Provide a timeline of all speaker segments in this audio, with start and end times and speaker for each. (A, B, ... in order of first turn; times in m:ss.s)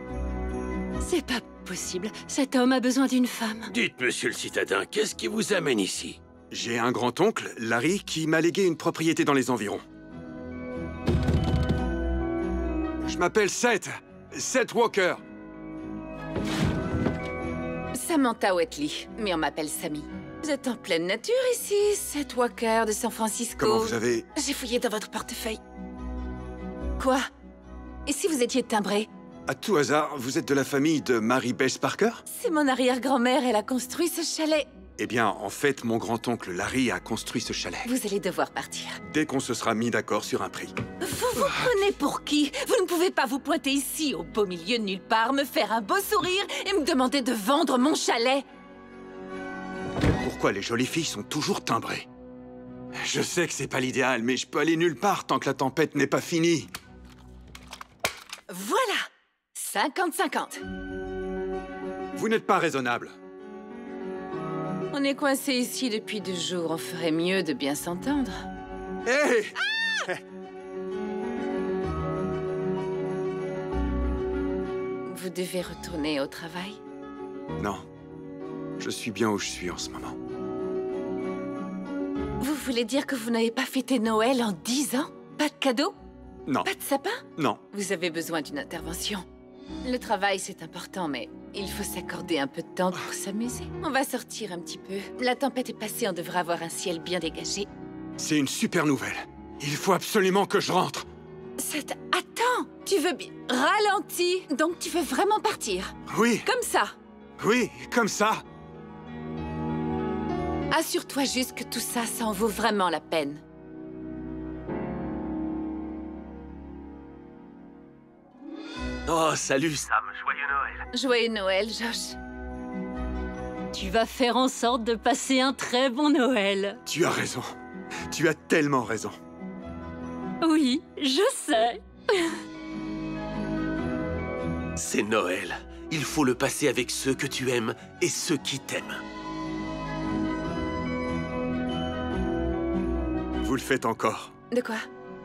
0:01.0-0:03.7 A
0:03.7-0:06.2 B
0:06.5-0:09.8 C
0:13.0-0:15.2 C
0:17.9-0:25.6 D
0:23.6-0:24.3 C
0:27.0-0:27.2 D
0:28.0-0:29.1 D
0:29.5-0:32.2 C
0:32.3-0:34.7 D
0:35.0-0:37.9 C
0:37.8-0:39.0 D
0:39.0-0:40.7 C
0:41.0-0:48.4 D
0:50.2-0:52.1 C
0:53.0-0:56.7 C
0:58.5-1:00.6 D
1:02.1-1:03.1 C
1:04.9-1:08.4 D
1:09.0-1:10.2 C
1:15.0-1:16.8 D
1:17.6-1:17.8 C
1:18.8-1:20.2 C
1:22.4-1:25.9 D
1:26.6-1:29.2 D
1:27.4-1:27.6 C
1:29.8-1:37.7 D
1:38.2-1:41.1 C
1:41.6-1:46.9 D
1:46.1-1:46.4 C
1:47.4-1:48.4 C
1:50.7-1:53.4 D
1:59.1-2:00.8 B
2:00.9-2:02.2 D
2:03.7-2:06.8 A
2:06.8-2:07.5 C
2:08.1-2:09.1 C
2:10.4-2:12.4 A
2:14.8-2:19.0 B
2:23.4-2:24.3 C
2:24.5-2:24.8 D